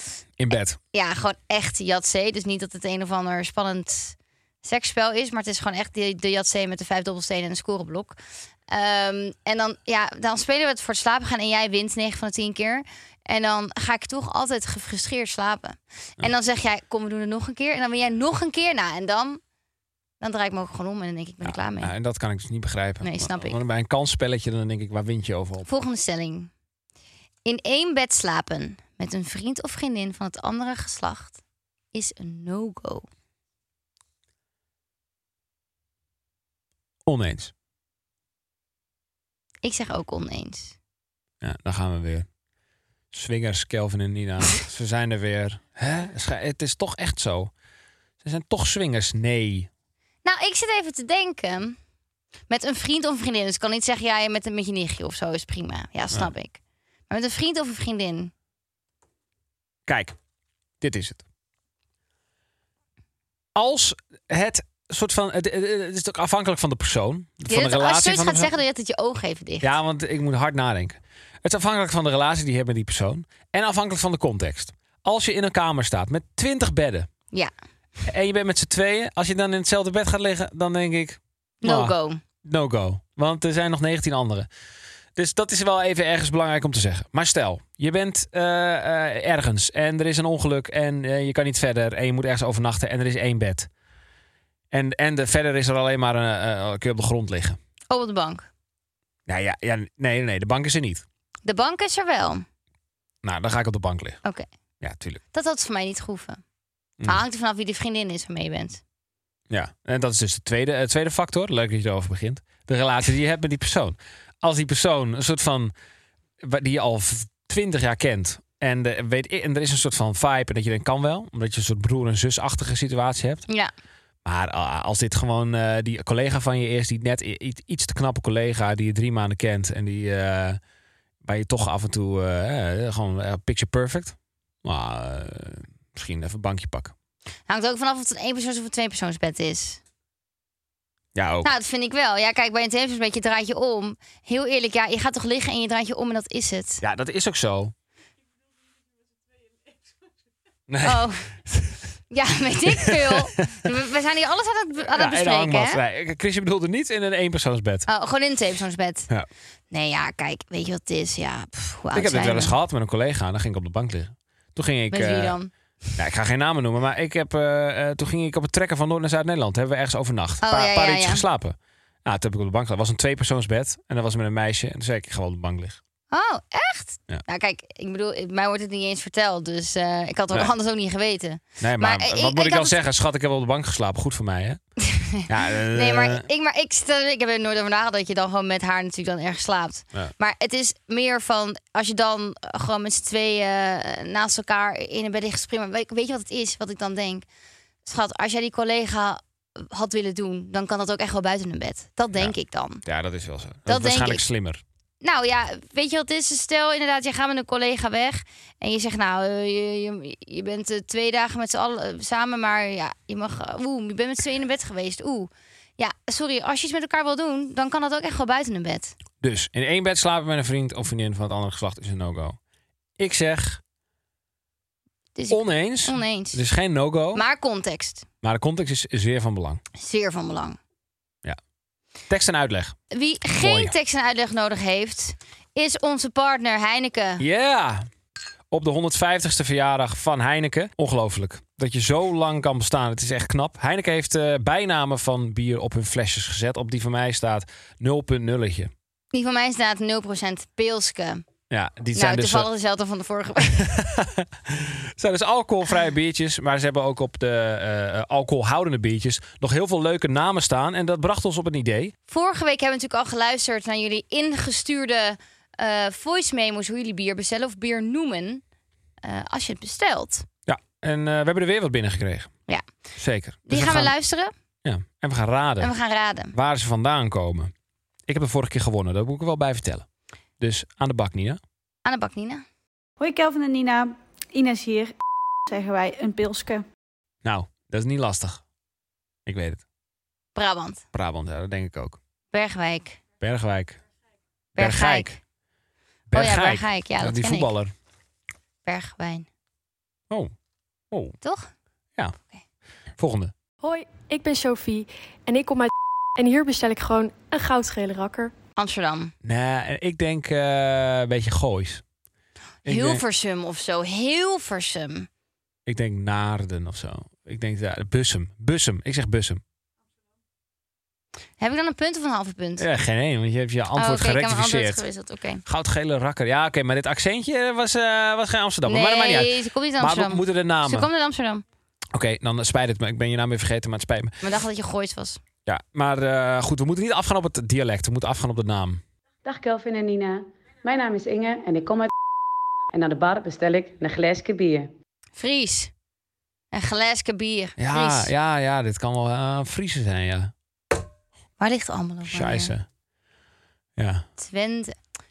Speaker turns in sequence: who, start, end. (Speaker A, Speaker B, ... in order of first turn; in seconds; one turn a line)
Speaker A: 0.4-0.8
Speaker B: 0.9-8.2
Speaker B: 8.7-19.4
Speaker B: 20.2-21.9
Speaker A: 21.4-25.7
Speaker B: 23.0-23.6
Speaker B: 25.6-26.5
Speaker B: 27.4-31.4
Speaker B: 31.9-33.1
Speaker A: 37.0-37.5
Speaker B: 39.6-40.8
Speaker A: 41.4-42.3
Speaker A: 43.1-47.5
Speaker A: 48.2-49.7
Speaker B: 50.2-51.8
Speaker B: 52.5-58.3
Speaker A: 59.9-60.1
Speaker A: 60.8-61.2
Speaker A: 63.5-68.5
Speaker B: 67.5-69.7
Speaker A: 69.6-77.1
Speaker A: 78.0-84.5
Speaker B: 81.6-82.2
Speaker A: 85.2-93.7
Speaker A: 94.7-97.6
Speaker B: 97.9-98.5
Speaker A: 99.3-101.0
Speaker B: 101.4-102.4
Speaker A: 103.2-104.2
Speaker A: 104.8-105.2
Speaker B: 105.3-106.4
Speaker B: 107.0-108.8
Speaker A: 109.5-115.7
Speaker A: 116.4-123.4
Speaker A: 124.2-130.6
Speaker A: 131.2-136.9
Speaker B: 137.5-139.8
Speaker A: 141.1-141.5
Speaker B: 141.4-146.8
Speaker A: 146.8-147.7
Speaker A: 150.7-151.8
Speaker B: 150.8-151.3
Speaker B: 152.1-155.8
Speaker A: 152.7-153.6
Speaker A: 154.9-157.9
Speaker B: 157.9-159.1
Speaker B: 159.7-162.5
Speaker A: 161.9-165.4
Speaker B: 164.9-165.5
Speaker A: 166.0-175.8
Speaker B: 170.4-171.2
Speaker B: 176.1-182.8
Speaker A: 181.6-184.6
Speaker B: 184.8-197.2
Speaker A: 185.2-186.2
Speaker B: 197.8-202.8
Speaker A: 202.8-204.6
Speaker B: 203.7-204.2
Speaker B: 205.0-218.9
Speaker A: 219.2-222.4
Speaker A: 223.0-223.6
Speaker B: 225.2-226.4
Speaker A: 225.3-227.2
Speaker B: 227.1-228.1
Speaker A: 228.2-229.6
Speaker B: 229.8-230.6
Speaker A: 232.1-232.8
Speaker B: 232.9-237.2
Speaker A: 233.4-233.7
Speaker A: 237.2-237.9
Speaker A: 238.5-248.7
Speaker B: 249.1-251.2
Speaker A: 251.5-252.5
Speaker B: 251.9-253.7
Speaker A: 253.4-261.9
Speaker B: 262.1-268.4
Speaker B: 269.0-270.3
Speaker A: 270.4-272.3
Speaker A: 272.9-273.9
Speaker B: 273.5-274.3
Speaker A: 274.6-275.7
Speaker B: 275.6-276.3
Speaker A: 276.3-277.5
Speaker A: 278.1-279.9
Speaker A: 280.4-281.4
Speaker B: 281.8-282.4
Speaker C: 283.0-284.9
Speaker C: 285.5-286.6
Speaker A: 287.2-288.4
Speaker A: 289.2-289.6
Speaker B: 290.3-290.8
Speaker A: 290.9-292.0
Speaker B: 292.3-293.0
Speaker A: 293.2-293.8
Speaker A: 294.6-295.2
Speaker B: 294.6-295.2
Speaker A: 296.1-297.7
Speaker B: 296.1-297.5
Speaker B: 298.6-299.3
Speaker A: 300.9-301.1
Speaker B: 301.2-301.5
Speaker A: 303.0-303.3
Speaker D: 303.6-308.3
Speaker B: 308.6-309.1
Speaker A: 309.2-311.8
Speaker A: 312.6-313.0
Speaker B: 312.6-315.1
Speaker A: 315.6-319.4
Speaker B: 321.4-322.6
Speaker A: 322.6-324.8
Speaker B: 323.8-325.4
Speaker A: 325.4-330.9
Speaker B: 328.6-331.4
Speaker A: 331.9-334.1
Speaker B: 334.2-335.2
Speaker A: 335.4-338.8
Speaker E: 339.2-341.9
Speaker E: 342.7-344.7
Speaker B: 345.1-345.7
Speaker B: 346.5-348.1
Speaker A: 347.6-350.3
Speaker B: 351.4-352.5
Speaker A: 352.1-352.6
Speaker A: 353.8-354.0
Speaker B: 354.2-354.7